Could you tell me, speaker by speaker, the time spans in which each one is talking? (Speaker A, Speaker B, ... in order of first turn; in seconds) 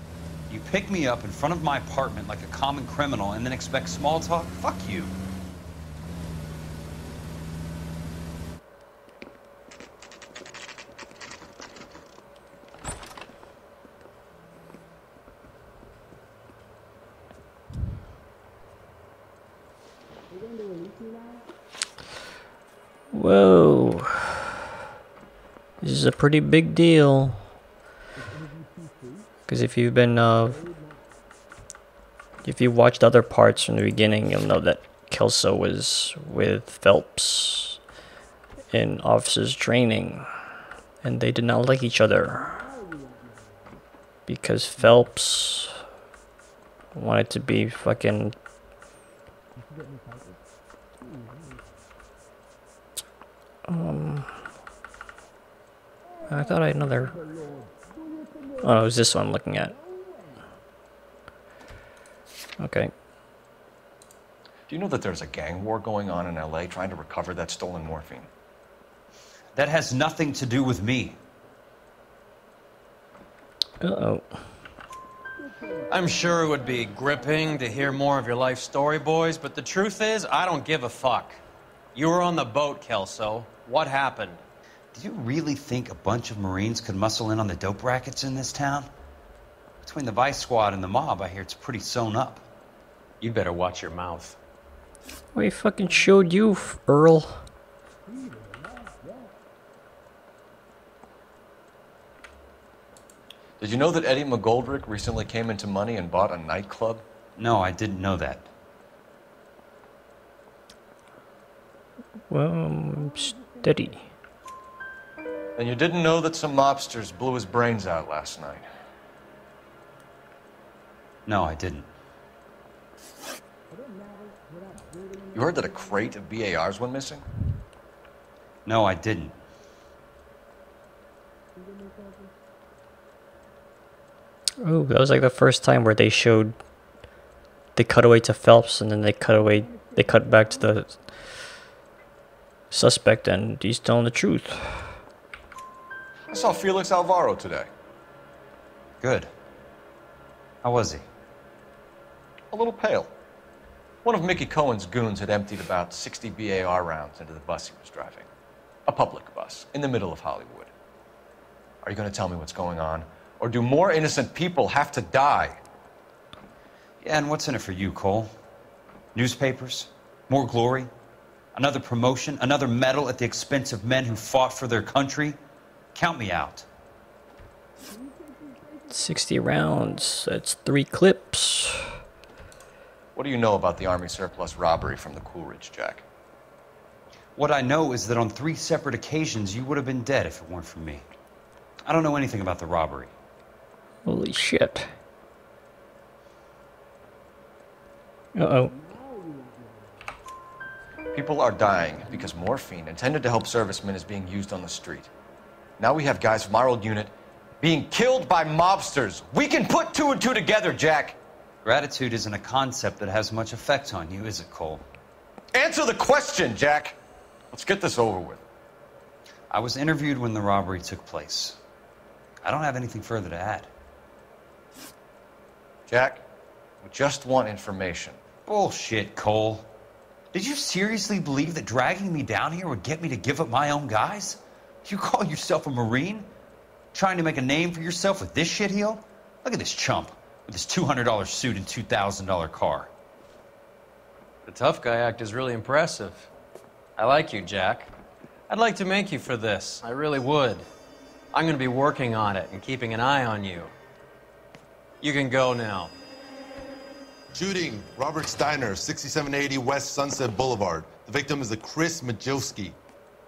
Speaker A: 0.5-5.1, 69.5-71.2, 84.9-88.9, 89.8-92.5, 107.4-108.5, 121.2-121.9, 128.7-129.3, 149.0-149.3, 150.6-151.0, 167.0-168.3, 169.1-170.9, 171.5-175.4, 175.9-176.7, 187.3-191.0, 191.8-193.1, 211.6-214.8, 219.5-221.6, 222.4-223.7, 228.4-229.7, 230.3-236.3, 236.9-242.9
Speaker B: 23.1-24.3, 25.8-27.5, 29.5-30.6, 32.4-37.8, 38.7-40.2, 41.0-42.7, 44.3-45.7, 47.0-48.4, 53.7-54.3, 56.3-57.1, 58.6-59.8, 62.6-62.9, 73.8-74.3, 95.3-97.4, 112.3-114.1, 134.6-136.6, 137.8-141.0, 142.7-145.0, 178.9-181.9, 194.0-194.9, 198.3-198.7
Speaker C: 64.7-68.3, 103.6-107.0, 115.6-118.7, 125.3-127.2, 146.3-147.7, 152.5-153.1, 154.0-158.3, 158.9-160.7, 161.8-165.6, 183.1-186.0, 201.1-205.1, 205.8-211.2, 215.5-217.0, 217.5-218.4, 225.9-226.2, 226.8-228.2
Speaker D: 75.9-81.4, 81.9-84.4, 93.2-94.3, 244.4-246.3, 247.0-247.9, 248.5-250.7, 251.3-253.7, 255.0-255.9
Speaker E: 257.3-262.8